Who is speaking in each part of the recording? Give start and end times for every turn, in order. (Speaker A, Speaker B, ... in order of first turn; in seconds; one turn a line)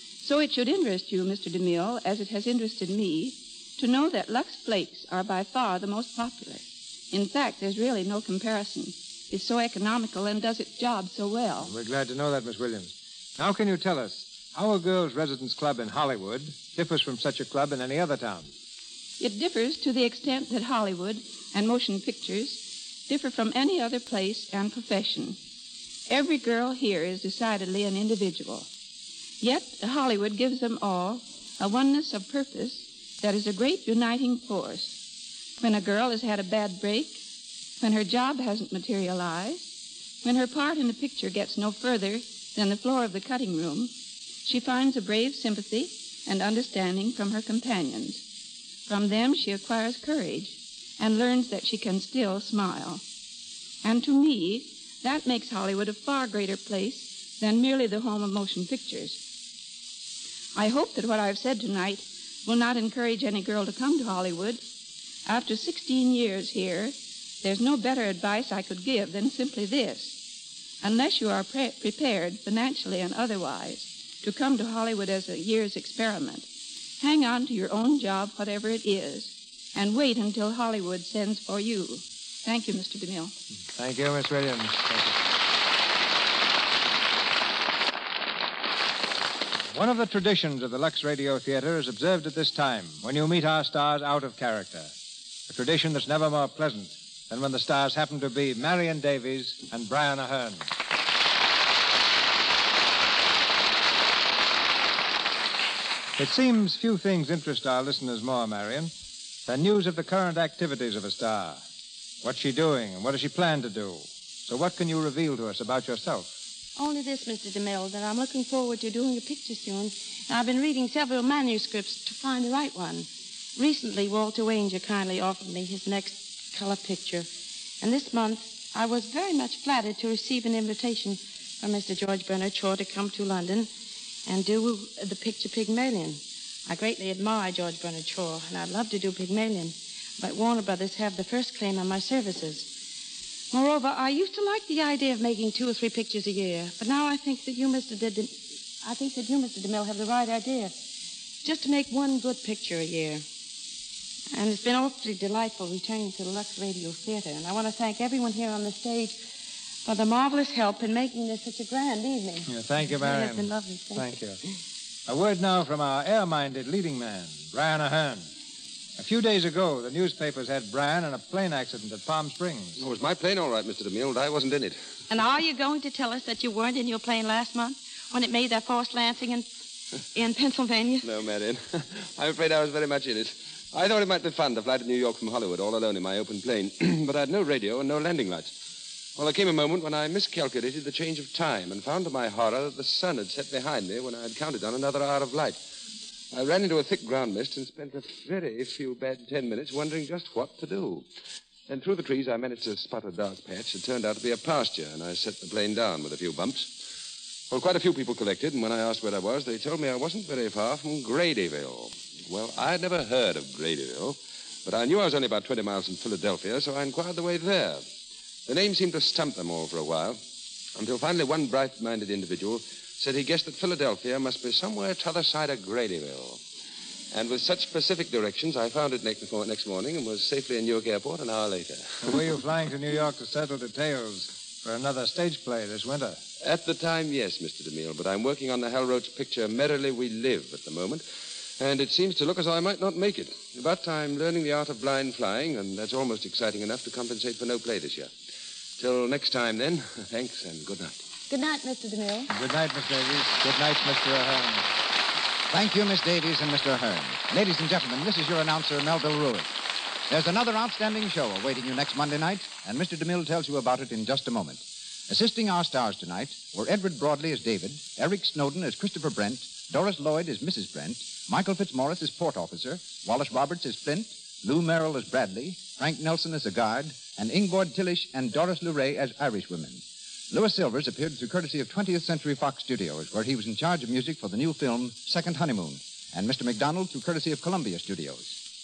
Speaker A: 0.2-11.7
Speaker B: 11.6-18.5
Speaker A: 19.2-25.4
Speaker A: 26.1-28.7
Speaker A: 29.4-35.0
Speaker A: 35.6-37.2
Speaker A: 37.8-43.9
Speaker A: 44.4-48.2
Speaker A: 48.9-53.0
Speaker A: 53.8-59.2
Speaker A: 60.5-64.6
Speaker A: 65.3-70.2
Speaker A: 70.8-76.5
Speaker A: 77.0-83.3
Speaker B: 83.7-85.2
Speaker B: 89.7-94.9
Speaker B: 95.5-100.7
Speaker B: 106.2-108.9
Speaker B: 109.5-111.6
Speaker B: 112.2-116.3
Speaker C: 116.8-127.3
Speaker C: 127.8-133.7
Speaker C: 134.3-142.7
Speaker C: 143.5-150.8
Speaker C: 151.4-153.2
Speaker C: 154.3-159.2
Speaker C: 159.8-164.1
Speaker B: 162.5-164.4
Speaker B: 165.1-168.3
Speaker B: 169.0-172.8
Speaker D: 172.8-174.8
Speaker C: 175.1-179.5
Speaker C: 180.1-181.1
Speaker D: 181.0-188.5
Speaker D: 189.2-195.6
Speaker D: 196.3-201.1
Speaker D: 201.7-206.7
Speaker D: 207.5-217.8
Speaker D: 218.5-220.2
Speaker D: 220.8-226.4
Speaker D: 227.1-232.2
Speaker B: 232.0-236.2
Speaker D: 236.4-241.0
Speaker D: 241.6-248.1
Speaker D: 248.8-251.0
Speaker C: 251.3-252.3
Speaker B: 252.3-254.7
Speaker E: 255.5-259.5
Speaker E: 260.1-288.4